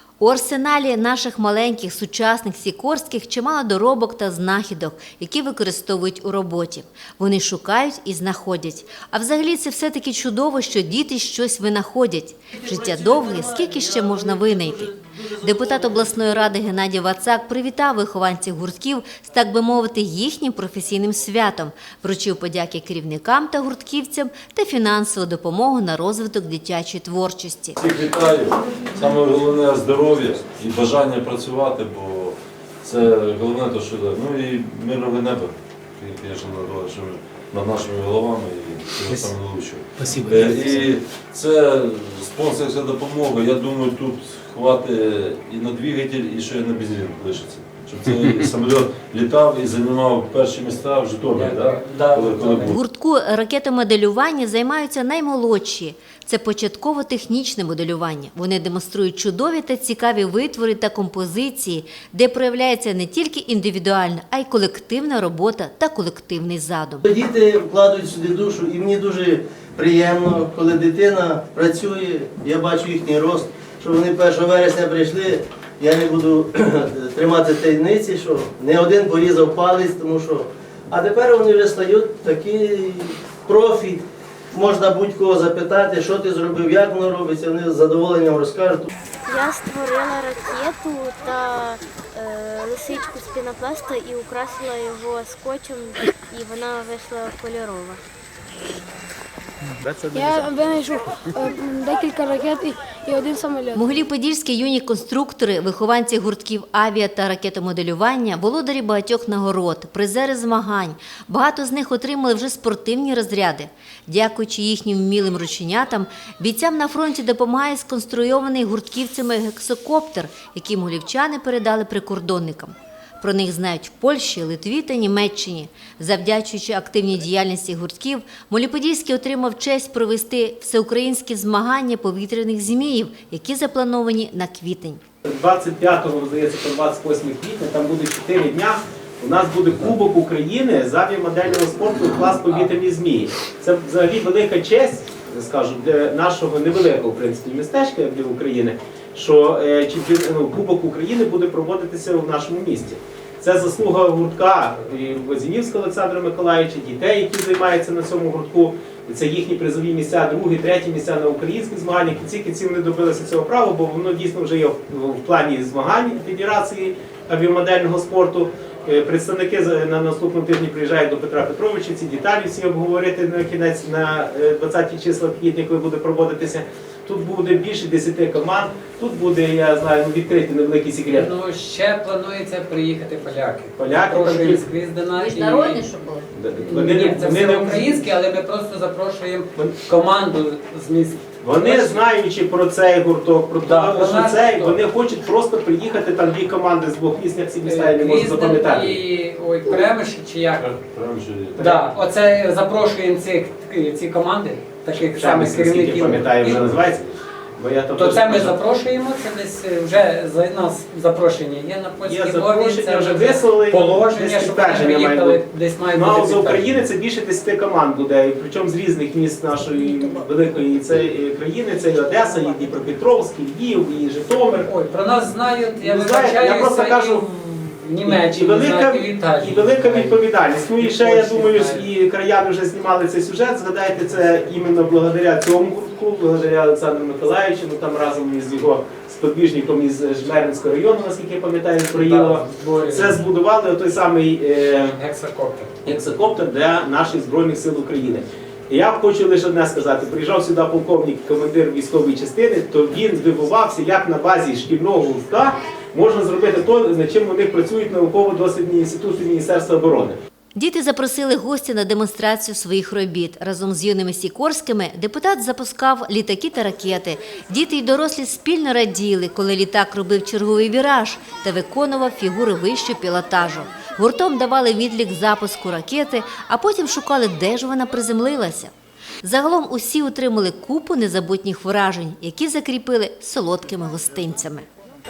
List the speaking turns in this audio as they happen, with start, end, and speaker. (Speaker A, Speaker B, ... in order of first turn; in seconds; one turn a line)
Speaker A: 0.2-14.9
Speaker B: 12.5-16.1
Speaker A: 15.4-27.8
Speaker C: 27.8-52.8
Speaker D: 51.3-52.7
Speaker A: 52.7-67.0
Speaker B: 67.0-88.9
Speaker E: 89.2-98.0
Speaker F: 100.1-103.9
Speaker A: 103.7-135.0
Speaker G: 135.2-181.3
Speaker D: 181.1-185.8
Speaker G: 183.8-184.7
Speaker A: 185.2-186.3
Speaker G: 186.3-188.1
Speaker D: 186.5-192.0
Speaker G: 191.4-199.0
Speaker D: 193.6-194.8
Speaker D: 197.7-200.7
Speaker C: 200.6-201.7
Speaker D: 201.6-206.7
Speaker G: 201.6-201.9
Speaker G: 205.1-208.6
Speaker C: 206.5-207.1
Speaker D: 207.9-216.9
Speaker G: 212.0-215.4
Speaker G: 215.9-224.7
Speaker D: 224.6-230.2
Speaker G: 225.8-227.2
Speaker G: 228.1-245.0
Speaker D: 230.8-231.9
Speaker D: 241.9-243.2
Speaker D: 244.9-245.7
Speaker G: 245.8-260.1
Speaker A: 260.6-284.7